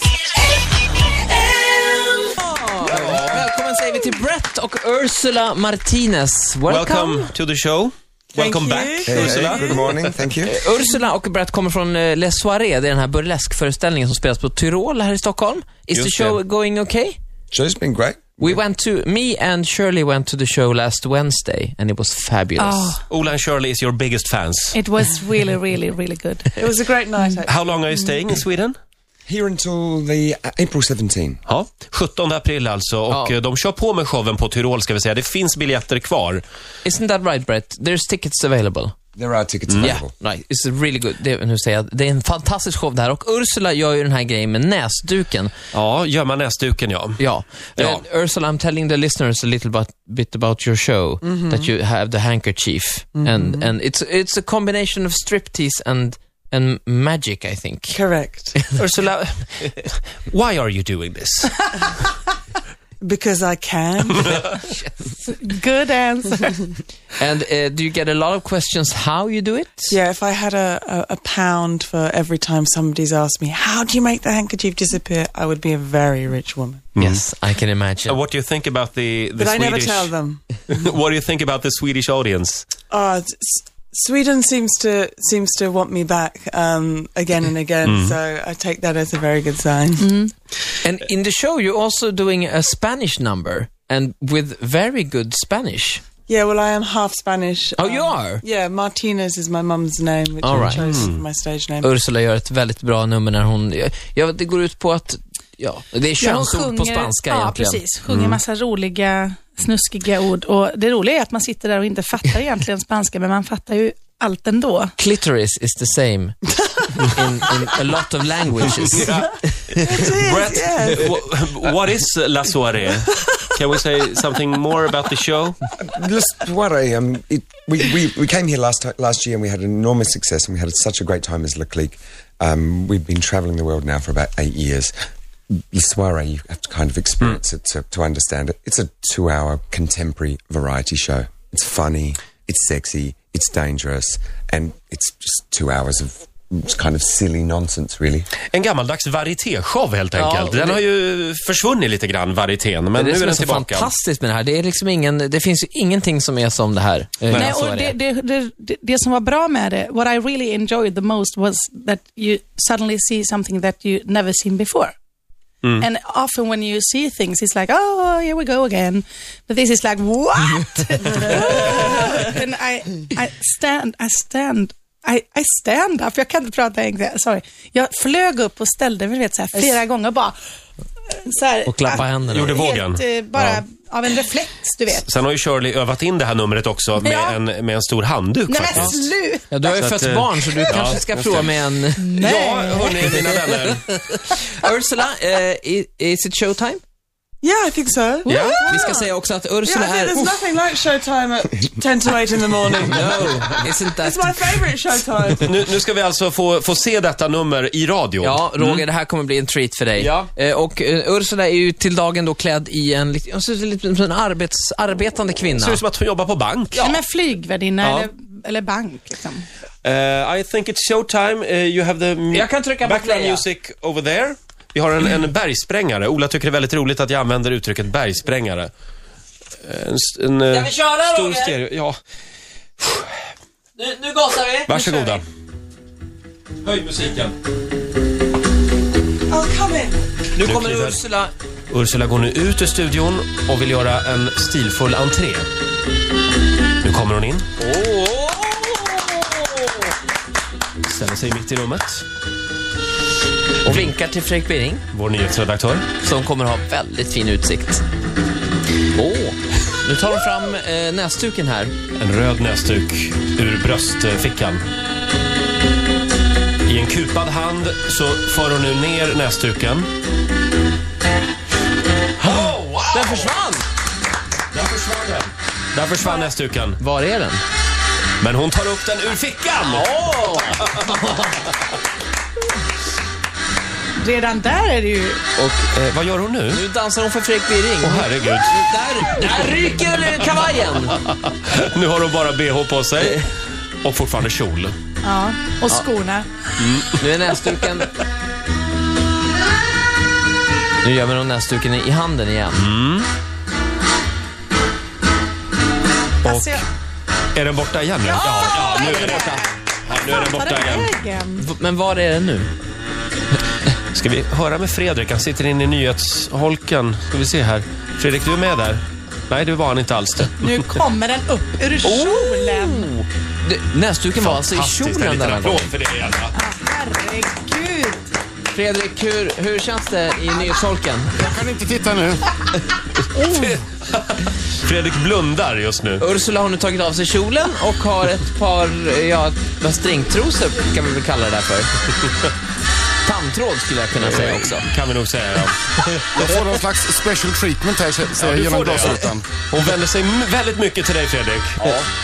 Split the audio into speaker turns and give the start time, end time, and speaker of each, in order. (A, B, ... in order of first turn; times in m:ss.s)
0:01.3-0:07.3 A
0:02.8-0:03.4 B
0:06.7-0:10.0 B
0:08.3-0:09.8 C
0:09.0-0:10.6 D
0:10.4-0:17.2 A
0:15.9-0:16.4 B
0:17.5-0:18.6 D
0:18.4-0:23.0 A
0:22.6-0:23.0 E
0:23.1-0:24.8 B
0:24.7-0:26.5 E
0:26.5-0:27.7 C
0:27.4-0:28.8 B
0:29.3-0:31.4 D
0:31.4-0:36.4 B
0:33.1-0:33.3 A
0:36.8-0:38.9 A
0:39.1-0:40.1 D
0:39.7-0:40.0 B
0:39.8-0:45.5 A
0:45.7-0:47.2 B
0:47.2-0:58.0 A
0:47.8-0:48.0 B
0:51.2-0:51.7 C
0:53.1-0:53.7 C
0:57.9-0:58.6 C
0:58.8-1:01.7 B
1:03.0-1:04.4 C
1:04.7-1:04.9 A
1:05.3-1:06.7 E
1:07.2-1:09.9 A
1:09.9-1:16.8 C
1:17.0-1:17.2 B
1:17.0-1:18.2 A
1:18.0-1:20.1 B
1:19.4-1:20.4 C
1:20.7-1:22.6 B
1:22.9-1:30.1 C
1:27.8-1:28.2 B
1:30.0-1:30.3 E
1:30.8-1:36.0 A
1:36.3-1:41.9 C
1:37.8-1:38.4 A
1:40.4-1:40.8 A
1:40.5-1:41.2 B
1:41.8-1:47.8 A
1:46.2-1:54.9 E
1:48.1-1:48.4 B
1:55.0-1:59.1 A
1:59.0-2:05.6 B
1:59.8-2:01.0 C
2:05.8-2:14.9 D
2:15.7-2:28.3 D
2:28.5-2:33.9 B
2:30.1-2:30.8 A
2:32.9-2:37.9 A
2:37.3-2:37.5 B
2:37.3-2:44.9 E
2:45.8-3:00.4 E
3:01.1-3:05.1 E
3:01.6-3:02.6 A
3:01.9-3:03.6 B
3:04.9-3:09.1 B
3:07.0-3:07.4 E
3:08.5-3:09.5 E
3:09.5-3:12.1 A
3:09.7-3:13.8 B
3:10.5-3:10.9 E
3:12.0-3:13.2 E
3:13.7-3:16.8 A
3:17.4-3:19.1 C
3:18.2-3:18.7 E
3:18.3-3:18.7 B
3:18.6-3:20.4 A
3:19.6-3:25.6 C
3:22.8-3:24.4 A
3:25.4-3:28.8 B
3:28.2-3:35.8 A
3:30.0-3:30.3 B
3:35.6-3:37.0 B
3:36.8-3:39.4 E
3:37.8-3:38.1 B
3:39.8-3:48.7 B
3:42.3-3:43.4 A
3:49.6-3:52.0 B
3:50.5-3:51.6 A
3:52.8-3:53.1 B
3:53.8-3:55.2 A
3:54.7-3:55.2 B
3:56.6-3:57.3 B
3:59.3-4:00.0 C
4:00.3-4:01.3 A
4:00.4-4:01.0 B
4:01.7-4:05.5 B
4:06.8-4:07.4 B
4:07.6-4:09.7 A
4:10.8-4:12.0 B
4:13.6-4:14.8 A
4:13.6-4:13.9 B
4:14.9-4:15.9 B
4:16.0-4:17.8 A
4:18.9-4:21.7 A
4:22.0-4:24.6 B
4:26.6-4:29.9 B
4:32.2-4:33.6 A
4:32.2-4:33.3 B
4:34.5-4:36.8 B
4:36.8-4:37.4 A
4:38.2-4:39.9 B
4:39.6-4:41.3 A
4:44.0-4:45.2 E
4:45.4-4:46.6 B
4:46.5-4:51.0 A
4:47.8-4:48.5 B
4:51.0-4:53.2 B
4:53.8-4:54.7 B
4:55.0-4:56.3 E
4:56.6-4:57.0 B
4:57.0-4:57.9 A
5:00.8-5:02.6 A
5:02.5-5:03.1 B
5:06.2-5:06.6 E
5:06.2-5:06.6 B
5:07.3-5:10.9 B
5:08.0-5:11.4 E
5:09.0-5:09.4 A
5:11.4-5:12.5 A
5:13.9-5:20.7 B
5:20.4-5:22.9 E
5:21.8-5:25.7 A
5:24.2-5:26.3 B
5:26.3-5:28.1 E
5:28.5-5:31.1 A
5:31.1-5:32.2 F
5:33.1-5:36.0 B
5:36.0-5:41.7 A
5:43.0-5:44.7 A
5:44.0-5:46.2 B
5:46.1-5:49.2 F
5:48.2-5:51.9 B